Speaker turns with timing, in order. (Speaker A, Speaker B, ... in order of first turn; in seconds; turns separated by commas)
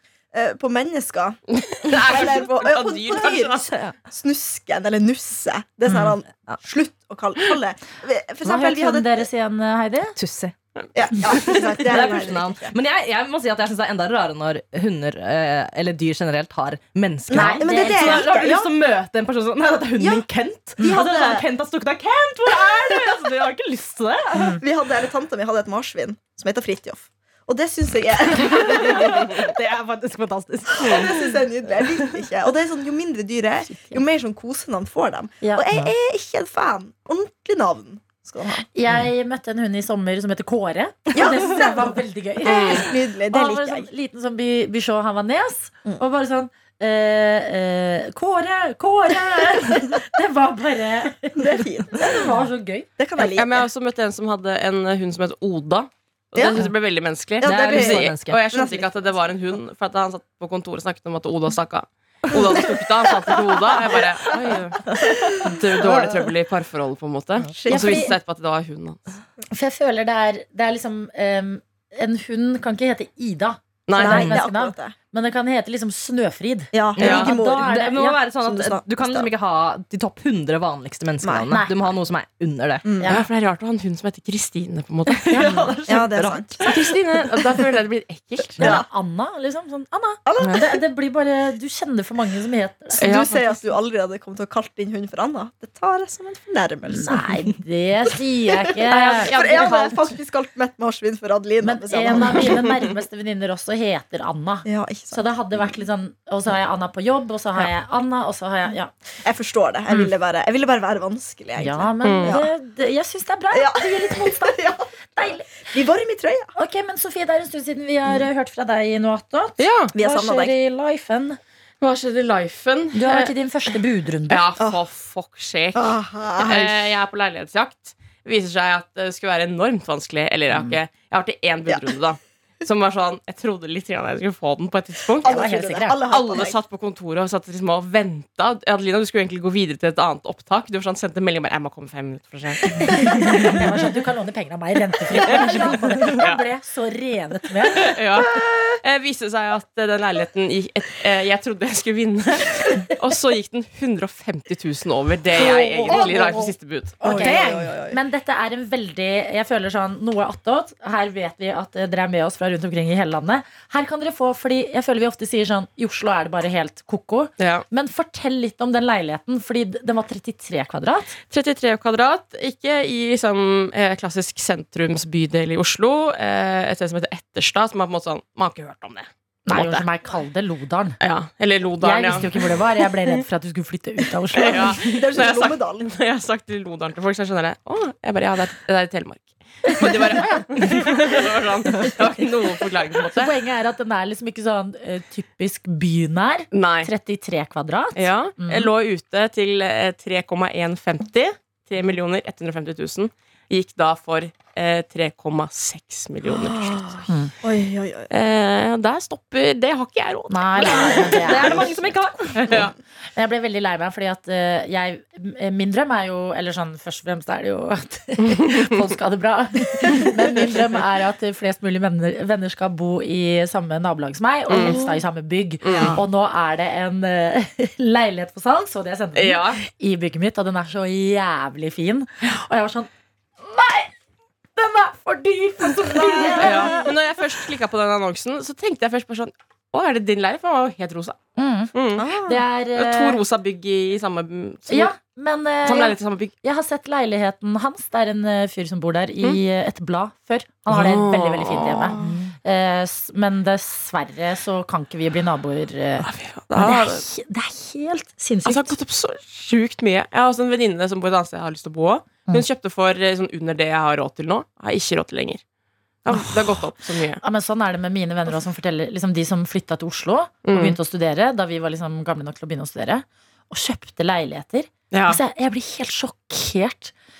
Speaker A: 0.3-9.3, Speaker B: 1.5-3.7, Speaker C: 5.9-6.6, Speaker D: 8.4-10.2, Speaker C: 10.2-10.5, Speaker A: 10.9-12.7, Speaker C: 11.2-24.6, Speaker A: 17.3-18.7, Speaker D: 17.3-18.2, Speaker A: 20.0-20.3, Speaker A: 20.8-21.4, Speaker D: 24.4-24.6, Speaker A: 24.6-29.3, Speaker C: 28.4-31.2, Speaker A: 30.8-38.6, Speaker D: 35.4-35.9, Speaker D: 38.8-52.9, Speaker A: 41.1-43.9, Speaker B: 42.5-42.8, Speaker A: 51.4-52.2, Speaker A: 53.0-53.7, Speaker B: 53.2-69.0, Speaker A: 56.3-56.7, Speaker C: 57.4-58.4, Speaker A: 57.4-59.2, Speaker A: 62.3-66.3, Speaker A: 67.5-68.1, Speaker D: 67.7-68.1, Speaker D: 69.5-78.2, Speaker B: 73.9-74.4, Speaker A: 74.0-74.9, Speaker A: 76.7-77.8, Speaker C: 77.0-82.8, Speaker A: 78.4-79.3, Speaker A: 81.2-81.5, Speaker D: 81.5-81.7, Speaker A: 82.8-83.2, Speaker D: 83.0-83.3, Speaker B: 83.1-85.5, Speaker C: 85.1-86.9, Speaker A: 85.4-86.6, Speaker B: 86.6-88.8, Speaker A: 88.6-88.8, Speaker D: 88.6-93.1, Speaker A: 90.2-90.8, Speaker A: 93.0-97.3, Speaker B: 93.0-93.5, Speaker D: 96.9-99.7, Speaker A: 98.8-102.7, Speaker B: 98.9-100.0, Speaker D: 101.6-108.9, Speaker A: 104.7-105.2, Speaker A: 109.2-112.5, Speaker D: 111.6-115.7, Speaker B: 112.0-112.4, Speaker A: 113.5-116.5, Speaker D: 116.6-121.4, Speaker B: 119.6-119.9, Speaker A: 119.9-120.5, Speaker B: 121.8-123.3, Speaker D: 122.9-124.4, Speaker B: 124.3-135.3, Speaker A: 125.7-126.9, Speaker A: 135.2-136.6, Speaker D: 135.2-136.0, Speaker B: 136.1-143.6, Speaker D: 142.8-148.8, Speaker B: 145.2-146.4, Speaker B: 147.7-157.5, Speaker D: 155.3-171.2, Speaker A: 155.9-156.3, Speaker A: 157.0-158.0, Speaker B: 167.4-167.6, Speaker B: 171.3-179.8, Speaker D: 179.5-181.0, Speaker B: 181.0-183.2, Speaker D: 181.8-184.8, Speaker B: 184.3-193.3, Speaker A: 184.4-185.9, Speaker D: 189.9-190.9, Speaker D: 193.1-198.7, Speaker B: 196.5-196.9, Speaker B: 197.9-207.0, Speaker A: 206.3-208.1, Speaker B: 208.1-211.6, Speaker D: 210.3-211.7, Speaker A: 210.7-211.0, Speaker C: 210.8-212.5, Speaker B: 212.4-212.7, Speaker D: 213.2-233.9, Speaker B: 218.2-218.8, Speaker B: 224.5-224.8, Speaker A: 224.6-225.0, Speaker B: 225.6-226.0, Speaker A: 225.7-226.0, Speaker B: 229.1-229.6, Speaker D: 234.6-236.9, Speaker A: 235.9-236.8, Speaker B: 236.4-241.2, Speaker D: 241.3-241.7, Speaker B: 241.7-242.1, Speaker A: 242.0-242.4, Speaker D: 242.2-243.2, Speaker B: 242.7-244.9, Speaker D: 244.7-258.7, Speaker B: 245.6-246.3, Speaker B: 250.7-252.0, Speaker A: 251.9-252.2, Speaker B: 256.0-257.0, Speaker B: 258.4-265.4, Speaker B: 266.0-267.2, Speaker D: 266.1-266.6, Speaker D: 267.2-276.9, Speaker B: 270.4-270.8, Speaker B: 274.9-275.2